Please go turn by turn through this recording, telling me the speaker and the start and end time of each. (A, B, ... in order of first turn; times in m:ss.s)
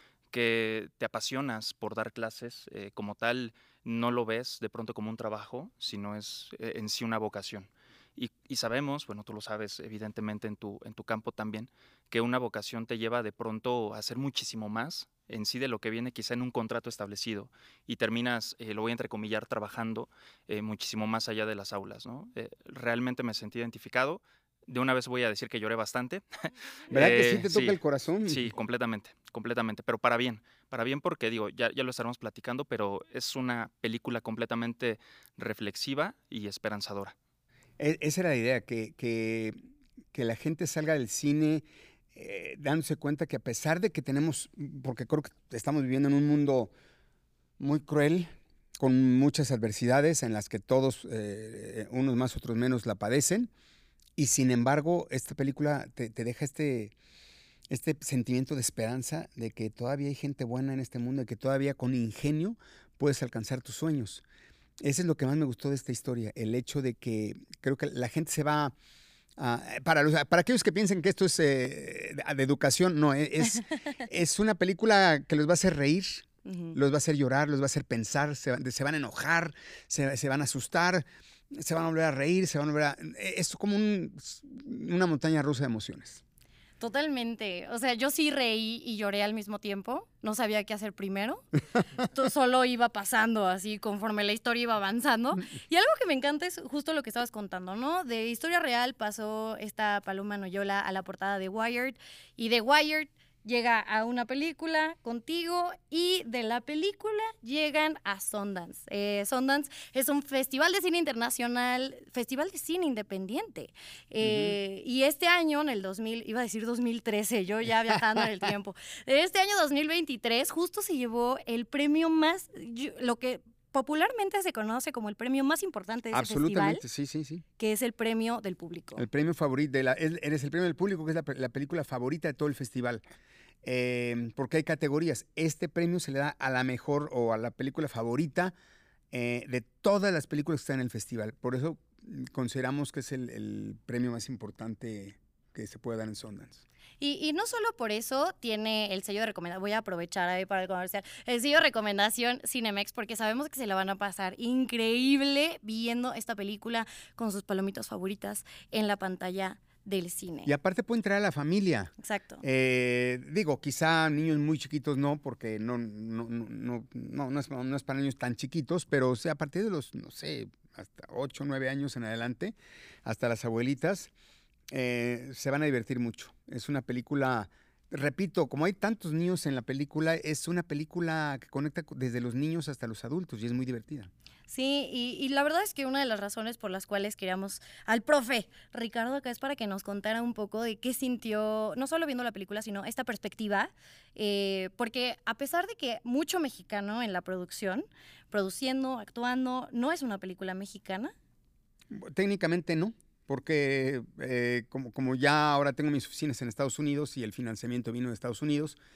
0:00.3-0:37.1 A
0:26.9-0:28.5 B
0:37.8-0:39.6 B
0:40.1-0:46.7 B
0:47.6-0:53.5 B
0:54.2-0:56.9 B
0:57.7-1:04.2 B
1:04.8-1:08.7 B
1:09.4-1:26.2 B
1:16.4-1:16.8 C
1:26.8-1:31.5 C
1:32.0-2:06.8 C
1:54.2-1:54.6 B
2:06.1-2:07.4 B
2:07.6-2:09.0 C
2:09.0-2:13.0 B
2:13.6-2:18.5 B
2:19.1-2:26.6 B
2:27.0-2:40.5 C
2:40.4-2:54.1 B
2:42.0-2:42.4 C
2:54.7-3:04.1 B
3:04.5-3:21.1 C
3:21.9-3:28.8 B